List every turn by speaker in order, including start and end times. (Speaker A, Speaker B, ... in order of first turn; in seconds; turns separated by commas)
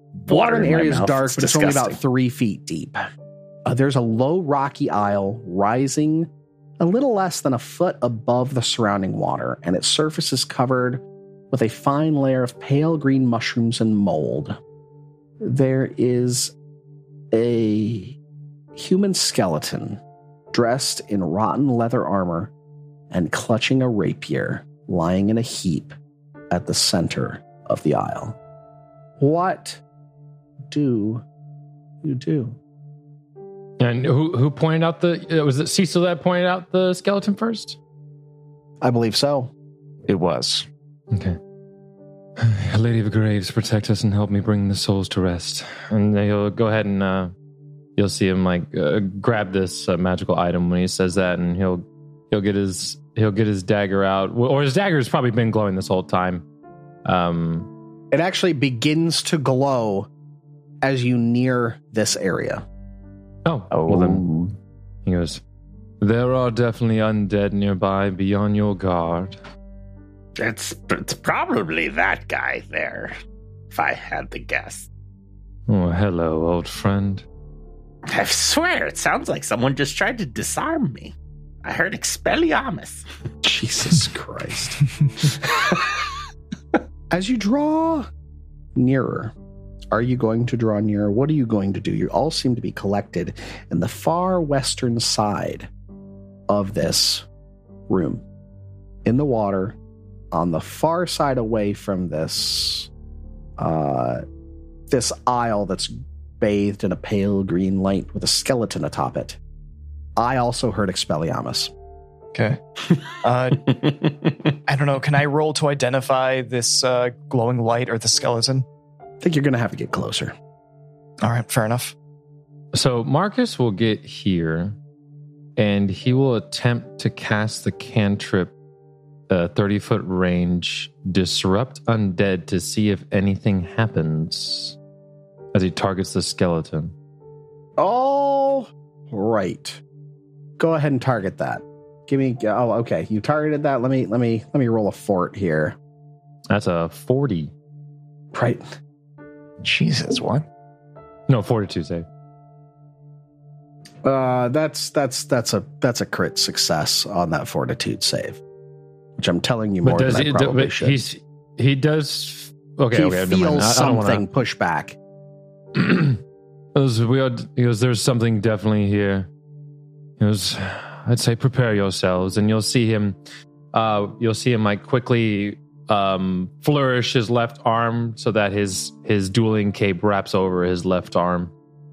Speaker A: 0.2-2.0, Speaker B: 0.3-3.0, Speaker B: 3.6-14.6, Speaker B: 15.4-16.6, Speaker B: 17.3-18.2, Speaker B: 18.8-20.0, Speaker B: 20.5-22.5, Speaker B: 23.1-25.9, Speaker B: 26.5-28.4, Speaker B: 29.2-29.8, Speaker B: 30.6-31.2, Speaker B: 32.0-32.6, Speaker C: 33.8-37.8, Speaker B: 38.8-39.5, Speaker D: 40.0-40.7, Speaker C: 41.1-41.4, Speaker C: 42.4-47.3, Speaker C: 48.0-56.5, Speaker C: 57.0-57.7, Speaker B: 58.1-60.1, Speaker B: 60.8-62.6, Speaker C: 63.5-64.3, Speaker D: 63.7-64.5, Speaker C: 65.0-65.4, Speaker C: 66.0-69.4, Speaker A: 70.4-73.2, Speaker A: 73.7-74.9, Speaker C: 75.7-77.2, Speaker A: 78.1-83.0, Speaker B: 83.4-85.7, Speaker B: 87.1-88.1, Speaker B: 88.8-89.3, Speaker B: 89.9-95.7, Speaker B: 96.5-97.3, Speaker B: 97.9-98.2, Speaker B: 99.0-99.8, Speaker B: 100.3-102.9, Speaker B: 103.6-104.2, Speaker B: 104.9-109.4, Speaker B: 110.2-111.7, Speaker E: 112.3-114.0, Speaker E: 114.7-118.7, Speaker B: 119.2-120.3, Speaker E: 121.2-121.9, Speaker C: 122.7-124.8, Speaker C: 125.6-128.5, Speaker C: 129.3-134.8, Speaker C: 135.5-136.9, Speaker B: 137.8-139.8, Speaker B: 140.6-145.8, Speaker C: 146.5-147.5, Speaker B: 148.3-148.6, Speaker D: 149.6-150.5, Speaker C: 151.3-152.1, Speaker B: 154.0-158.4, Speaker B: 159.2-161.0, Speaker C: 159.8-164.2, Speaker B: 162.9-165.0, Speaker C: 165.8-166.2, Speaker C: 166.8-169.3, Speaker C: 170.2-173.2, Speaker C: 173.7-181.5